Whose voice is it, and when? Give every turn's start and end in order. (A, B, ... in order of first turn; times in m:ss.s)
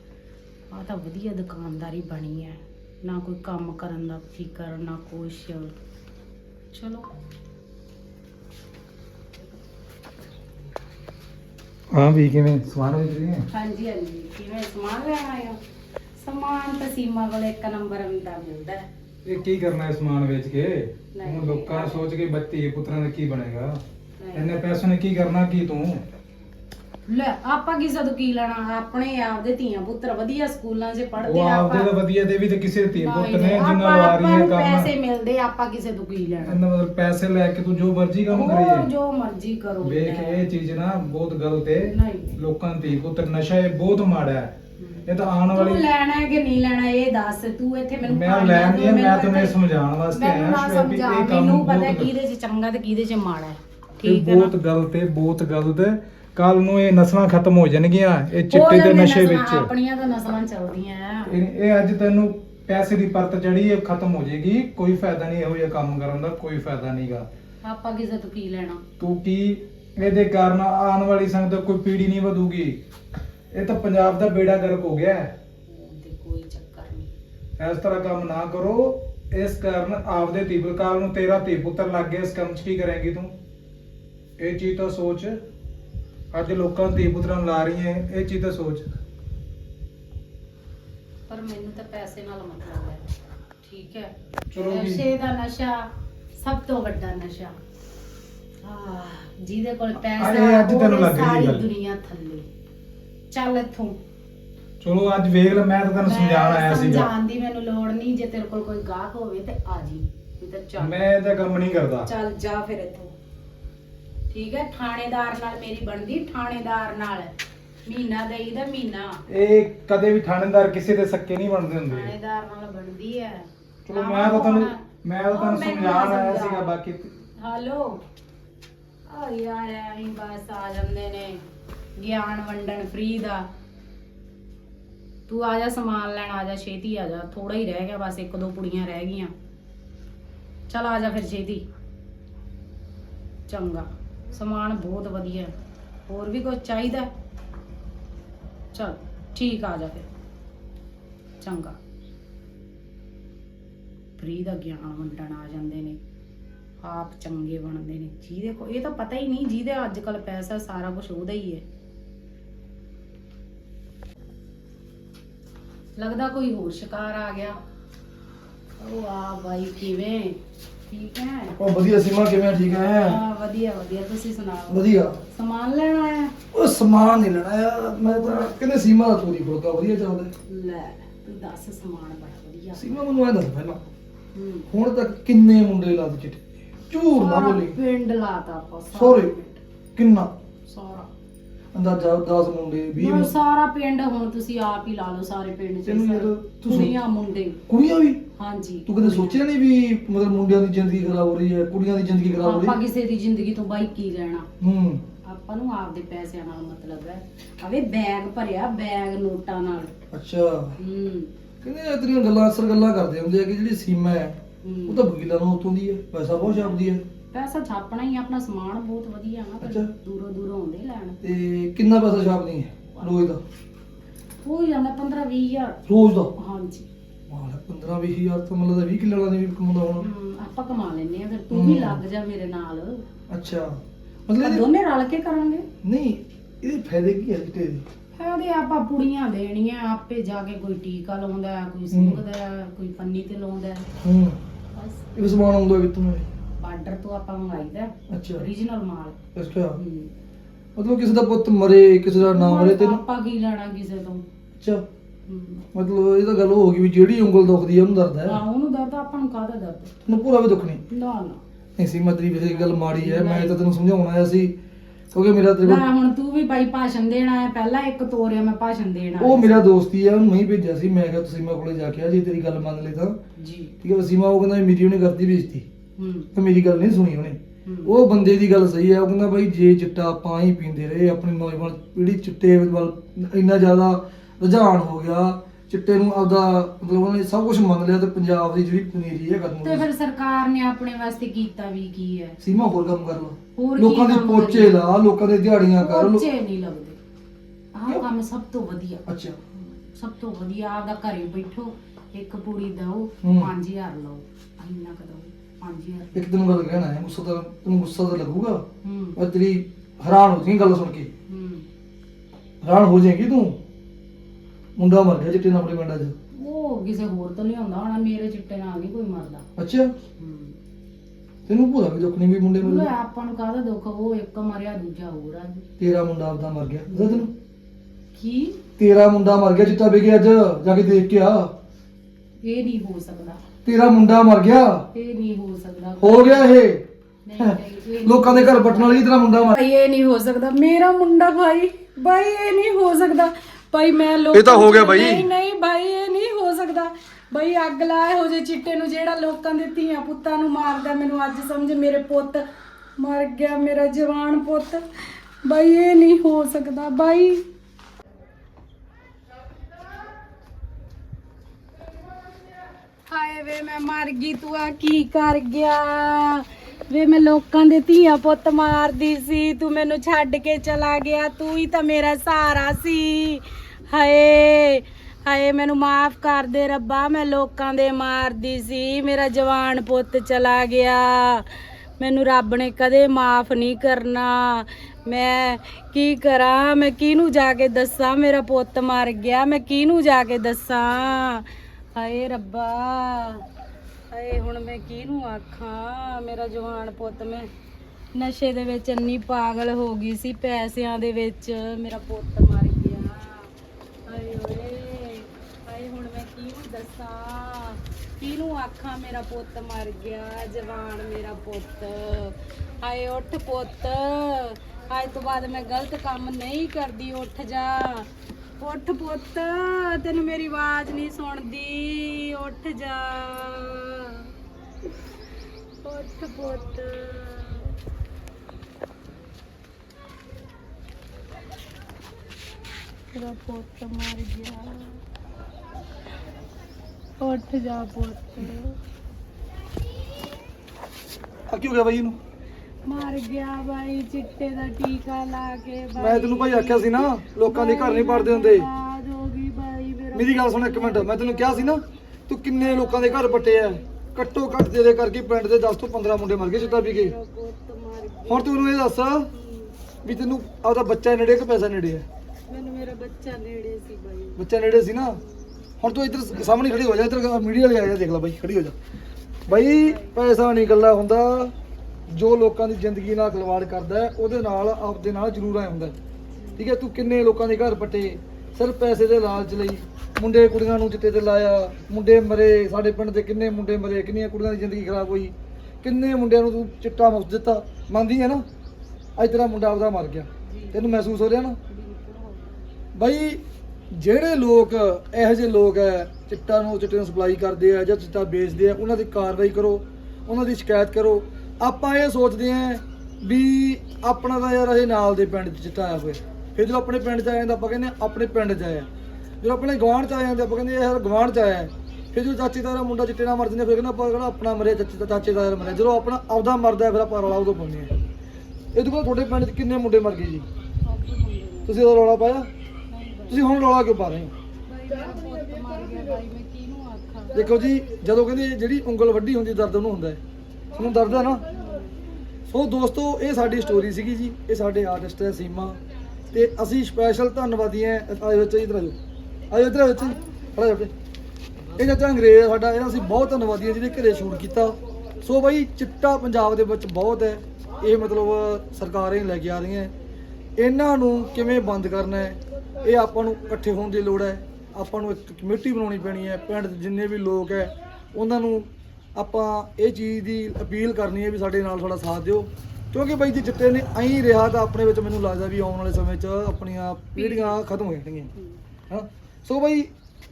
0:00.7-0:05.7 A
0:06.7-0:07.1 A
0:11.9-0:13.4 B
0:13.5-0:15.6 A
0:16.2-0:18.8 A
0:19.2-0:23.8 B
0:21.2-0:22.1 A
0:24.2-0:24.6 A
0:24.4-0:26.0 B
0:27.1-0:31.9 A
0:31.2-0:34.9 B
0:33.0-0:36.6 A
0:36.4-0:38.9 B
0:38.3-0:40.4 A
0:39.8-0:44.5 B
0:41.9-0:42.4 A
0:44.8-0:49.6 A
0:45.1-0:45.8 B
0:48.1-0:52.1 B
0:50.1-0:54.5 A
0:54.0-0:59.7 B
0:58.5-1:01.3 A
1:01.3-1:07.3 B
1:07.6-1:08.8 A
1:09.0-1:12.8 B
1:13.5-1:15.3 B
1:15.7-1:17.1 A
1:17.6-1:23.3 B
1:24.4-1:25.3 B
1:26.3-1:28.9 B
1:31.3-1:33.0 A
1:33.6-1:37.6 A
1:34.5-1:35.1 B
1:38.6-1:42.4 A
1:40.0-1:41.7 B
1:43.3-1:44.0 A
1:44.8-1:47.1 B
1:46.0-1:51.0 A
1:50.8-1:52.1 B
1:52.0-1:53.1 A
1:54.3-1:57.3 A
1:57.9-1:59.2 A
1:59.3-2:02.1 B
2:01.9-2:04.8 A
2:03.9-2:07.1 B
2:05.3-2:06.7 A
2:07.4-2:08.0 A
2:09.1-2:11.4 A
2:12.0-2:13.5 A
2:15.3-2:19.3 A
2:20.7-2:21.6 A
2:23.5-2:25.5 A
2:26.1-2:27.1 A
2:28.7-2:30.1 A
2:31.4-2:31.8 A
2:34.2-2:36.0 A
2:36.8-2:41.6 A
2:46.0-2:47.6 A
2:48.8-2:50.4 A
2:50.9-2:51.6 A
2:51.5-2:53.2 C
2:53.0-2:56.3 A
2:54.7-2:55.2 C
2:56.5-3:00.3 C
2:58.0-2:58.5 A
3:00.5-3:03.0 A
3:02.8-3:03.8 C
3:04.3-3:04.7 A
3:04.7-3:07.8 C
3:07.2-3:09.6 A
3:08.9-3:09.3 C
3:10.0-3:10.3 C
3:10.7-3:11.1 A
3:11.7-3:13.3 C
3:13.0-3:17.6 A
3:15.9-3:16.9 C
3:17.7-3:18.2 C
3:18.4-3:19.4 A
3:18.9-3:22.8 C
3:22.4-3:24.5 A
3:24.6-3:25.0 C
3:25.2-3:29.9 A
3:30.1-3:30.8 C
3:30.8-3:31.3 A
3:31.6-3:37.0 C
3:34.6-3:35.1 A
3:36.4-3:36.8 A
3:37.3-3:41.2 A
3:39.6-3:39.9 C
3:41.2-3:43.4 C
3:43.0-3:43.2 A
3:44.4-3:45.8 A
3:45.9-3:46.3 C
3:46.4-3:46.9 A
3:47.3-3:50.1 C
3:50.0-3:53.0 A
3:51.5-3:52.0 C
3:53.3-3:54.7 C
3:54.4-3:55.6 A
3:55.8-3:57.8 C
3:58.2-4:03.9 A
4:01.9-4:02.2 C
4:04.0-4:04.4 C
4:04.7-4:05.1 A
4:05.2-4:06.3 C
4:06.6-4:09.2 A
4:08.1-4:08.5 C
4:09.3-4:09.8 C
4:09.8-4:10.1 A
4:10.8-4:13.0 C
4:12.2-4:14.2 A
4:14.6-4:14.8 C
4:15.3-4:15.6 A
4:15.7-4:18.4 C
4:18.3-4:19.9 A
4:20.1-4:20.8 C
4:20.9-4:21.4 A
4:21.8-4:24.6 C
4:22.6-4:23.6 A
4:25.1-4:25.8 C
4:25.6-4:29.6 A
4:29.2-4:33.2 C
4:33.4-4:33.8 A
4:33.8-4:35.7 C
4:36.0-4:36.3 A
4:36.3-4:49.9 C
4:37.6-4:37.9 A
4:49.6-4:52.4 A
4:52.4-4:56.3 C
4:53.6-4:54.8 A
4:55.7-4:57.0 A
4:57.7-4:59.0 A
4:59.1-4:59.4 C
4:59.6-5:06.2 A
5:03.2-5:03.5 C
5:06.2-5:08.6 C
5:08.8-5:09.2 A
5:09.2-5:11.1 C
5:11.3-5:11.7 A
5:12.6-5:13.6 C
5:14.8-5:16.2 C
5:16.3-5:19.4 A
5:19.6-5:19.9 C
5:20.2-5:20.6 A
5:21.4-5:22.9 C
5:22.6-5:25.7 A
5:25.8-5:27.3 C
5:26.9-5:27.3 A
5:28.1-5:28.6 A
5:28.8-5:31.5 C
5:32.4-5:33.4 A
5:33.6-5:34.9 C
5:34.9-5:36.5 A
5:36.0-5:36.9 C
5:37.2-5:52.4 A
5:37.4-5:39.6 C
5:44.3-5:45.3 C
5:53.0-5:57.4 A
6:03.1-6:33.4 A
6:34.1-6:37.5 A
6:38.1-6:43.5 A
6:44.1-7:04.3 A
7:05.8-7:07.8 A
7:13.1-7:15.0 A
7:17.2-7:18.8 A
7:21.5-7:22.2 C
7:22.8-7:31.8 A
7:26.0-7:28.7 C
7:30.1-7:37.2 C
7:32.5-7:34.8 A
7:36.4-7:39.8 A
7:38.3-7:39.3 C
7:40.0-7:42.0 C
7:42.5-7:44.4 A
7:44.4-7:45.2 C
7:45.1-7:46.2 A
7:45.8-7:48.8 C
7:49.5-7:51.5 C
7:49.5-7:50.2 A
7:52.1-7:56.0 C
7:56.3-7:56.7 A
7:56.6-8:08.4 C
8:09.2-8:11.6 C
8:10.4-8:10.9 A
8:11.7-8:12.6 A
8:12.9-8:28.9 C
8:29.4-8:37.9 C
8:38.7-8:40.4 C
8:40.9-8:41.8 A
8:41.7-8:42.5 C
8:42.9-8:43.4 A
8:43.3-8:44.3 C
8:44.7-8:47.4 A
8:47.3-8:50.2 C
8:50.7-8:51.4 C
8:51.2-8:51.9 A
8:52.5-8:55.8 C
8:56.3-8:59.0 C
8:59.5-9:00.9 C
9:01.8-9:09.9 C
9:10.6-9:28.3 C
9:27.2-9:27.6 A
9:28.9-9:29.9 C